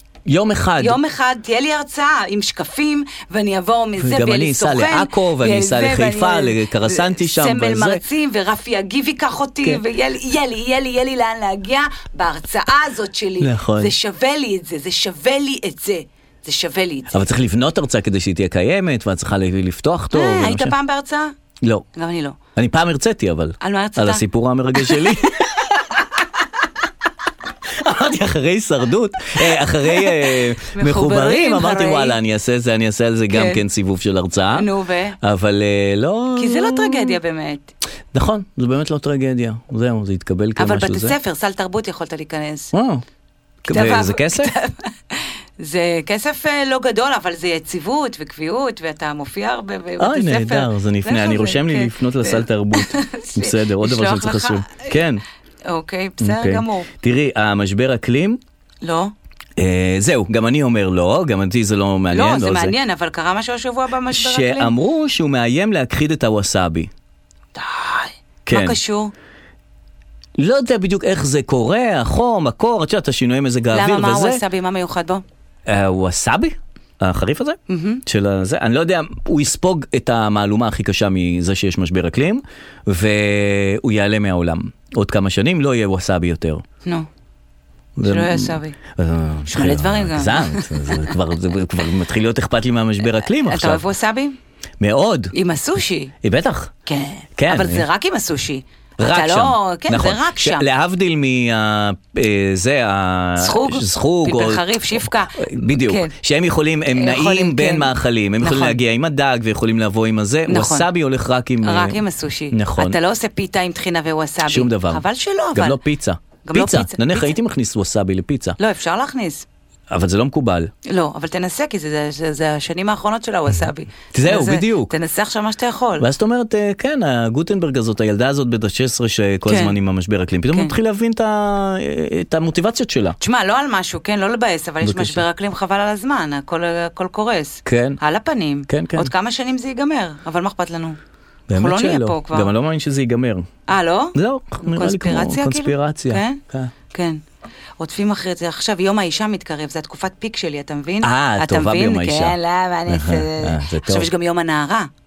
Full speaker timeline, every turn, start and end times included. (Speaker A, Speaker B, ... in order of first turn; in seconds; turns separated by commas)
Speaker A: 0.3-1.0, Speaker B: 0.8-17.2, Speaker A: 4.0-8.0, Speaker A: 13.4-13.9, Speaker A: 17.1-20.8, Speaker B: 20.1-21.3, Speaker A: 21.6-21.9, Speaker B: 21.9-22.4, Speaker A: 22.6-25.8, Speaker B: 23.6-24.2, Speaker A: 27.7-34.7, Speaker B: 29.9-32.2, Speaker B: 33.3-33.6, Speaker B: 34.5-35.2, Speaker A: 35.2-37.2, Speaker B: 36.4-37.7, Speaker A: 38.1-41.2, Speaker B: 40.6-42.7, Speaker A: 42.7-43.0, Speaker B: 43.6-55.0, Speaker A: 43.7-44.5, Speaker A: 50.0-55.2, Speaker B: 55.7-56.9, Speaker A: 56.2-58.4, Speaker B: 58.8-59.1, Speaker A: 59.6-62.8, Speaker B: 62.1-64.7, Speaker A: 64.1-66.9, Speaker B: 67.5-69.1, Speaker A: 68.5-68.8, Speaker A: 70.4-74.4, Speaker B: 73.7-75.2, Speaker A: 75.7-86.6, Speaker B: 77.7-78.0, Speaker A: 88.0-93.8, Speaker B: 88.0-88.8, Speaker B: 89.5-91.1, Speaker B: 93.4-94.4, Speaker A: 94.8-95.3, Speaker B: 95.3-96.1, Speaker A: 96.2-96.7, Speaker B: 96.9-100.7, Speaker A: 97.4-97.9, Speaker A: 99.0-113.0, Speaker B: 103.4-106.1, Speaker B: 106.9-108.8, Speaker B: 110.5-110.9, Speaker B: 111.6-115.8, Speaker A: 114.5-118.6, Speaker B: 116.4-117.4, Speaker B: 118.6-119.5, Speaker A: 119.9-120.7, Speaker B: 120.9-126.1, Speaker A: 124.1-124.9, Speaker A: 126.0-133.2, Speaker B: 129.5-129.8, Speaker B: 133.2-141.0, Speaker A: 134.8-135.2, Speaker A: 137.7-138.0, Speaker A: 138.7-139.1, Speaker A: 141.5-143.5, Speaker B: 141.5-142.5, Speaker B: 143.7-146.4, Speaker A: 144.1-146.7, Speaker B: 146.9-147.2, Speaker B: 147.8-154.9, Speaker A: 151.0-154.1